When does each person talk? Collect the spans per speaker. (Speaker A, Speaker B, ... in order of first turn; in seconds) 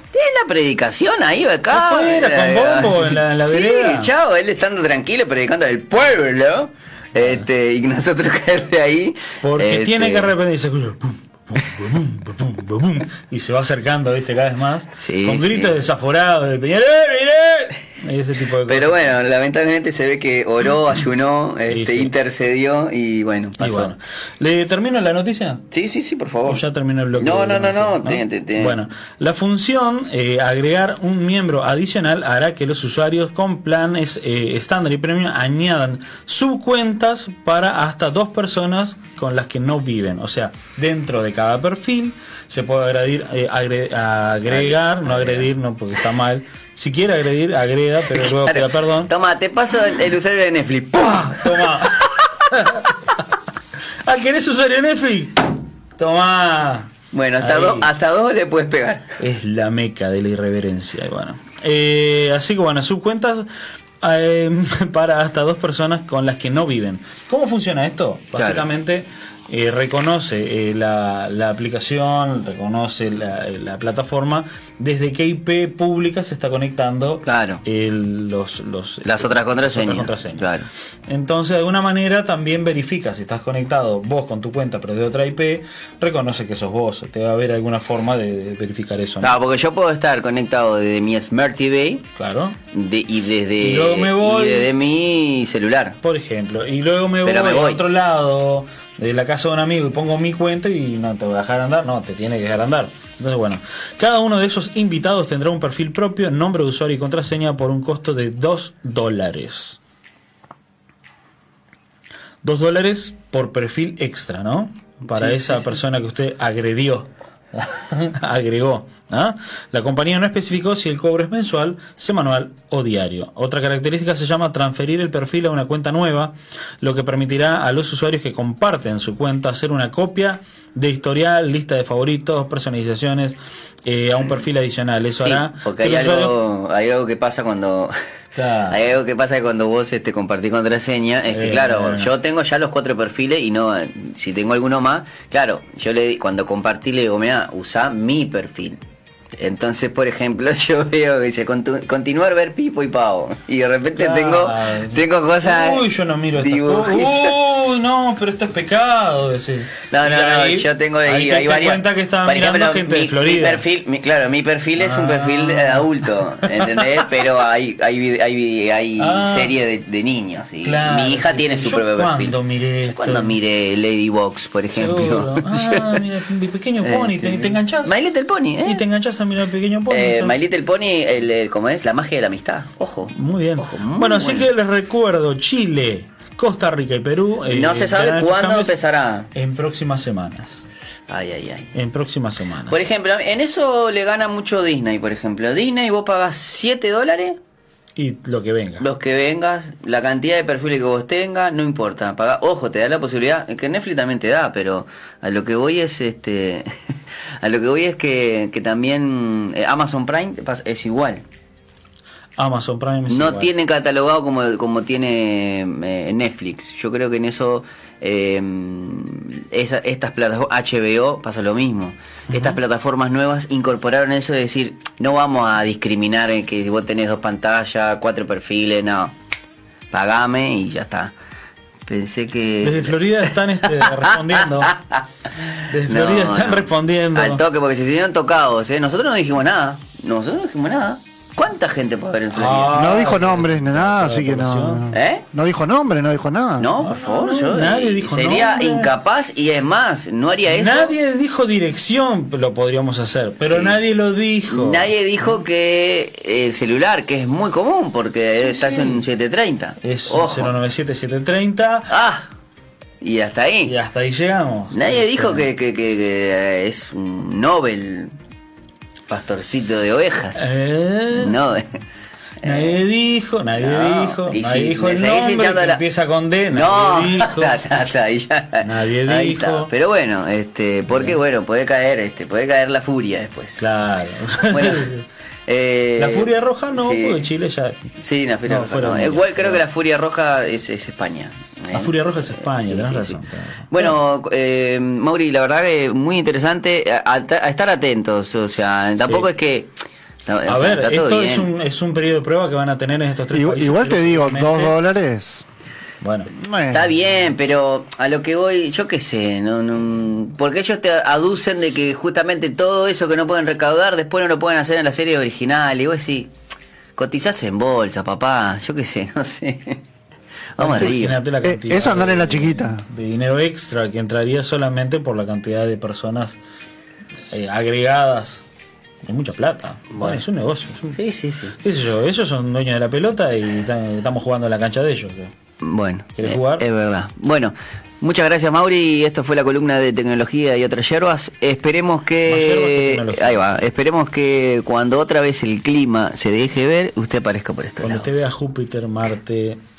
Speaker A: 0.1-10.3, 15.0-15.8, 18.7-23.9, 25.7-26.6, 27.2-28.8, 44.5-45.5, 48.1-51.7, 57.1-59.1, 68.4-68.7, 77.2-77.6, 79.0-80.7, 89.2-92.0, 92.7-96.0, 97.2-97.8, 115.1-115.8, 135.2-137.9, 138.7-148.8, 149.4-155.8, 156.3-157.3, 159.9-172.3, 172.9-176.0, 176.8-178.8, 179.9-184.5, 187.5-189.3, 191.1-191.7, 192.7-197.4, 198.8-206.7, 207.4-211.2, 213.1-229.2, 229.9-231.1, 231.9-235.0, 235.8-242.9, 244.9-245.2, 246.6-251.0, 253.4-253.8, 254.5-260.5, 261.9-262.3, 263.0-263.7, 264.7-268.1, 269.1-271.6, 272.4-272.8, 273.6-275.8, 276.5-283.7, 284.5-284.9, 285.5-287.3, 288.0-299.7, 300.3-301.5, 306.7-316.3, 317.0-319.8, 320.6-321.2, 330.9-331.6, 335.6-348.2
Speaker B: 1.7-4.1, 7.2-7.4, 9.4-19.2, 21.7-22.1, 23.6-25.6, 26.5-49.1, 51.0-52.9, 54.0-57.9, 59.2-63.5, 64.0-80.4, 81.1-89.4, 92.2-92.6, 93.6-94.7, 96.0-109.8, 112.4-136.4, 138.4-138.8, 141.3-142.1, 153.9-163.6, 164.8-165.9, 169.0-169.6, 170.6-173.4, 174.7-177.9, 178.7-180.3, 183.1-188.8, 189.3-190.6, 191.7-192.8, 198.0-198.8, 212.4-213.5, 222.3-222.6, 232.6-234.8, 235.7-237.4, 242.3-244.9, 246.8-248.9, 250.5-255.4, 258.4-259.0, 259.8-261.9, 263.7-265.5, 270.4-271.4, 272.4-277.6, 278.6-279.7, 280.9-281.2, 283.6-285.1, 286.0-287.8, 288.5-289.6, 291.7-294.0, 299.0-299.3, 300.5-304.8, 306.0-306.3, 320.6-326.4, 327.3-328.4, 329.1-331.0, 331.6-335.3, 336.2-336.6, 342.3-343.6, 347.8-349.6
Speaker C: 242.7-246.8, 303.3-305.4, 306.4-306.9, 320.8-322.8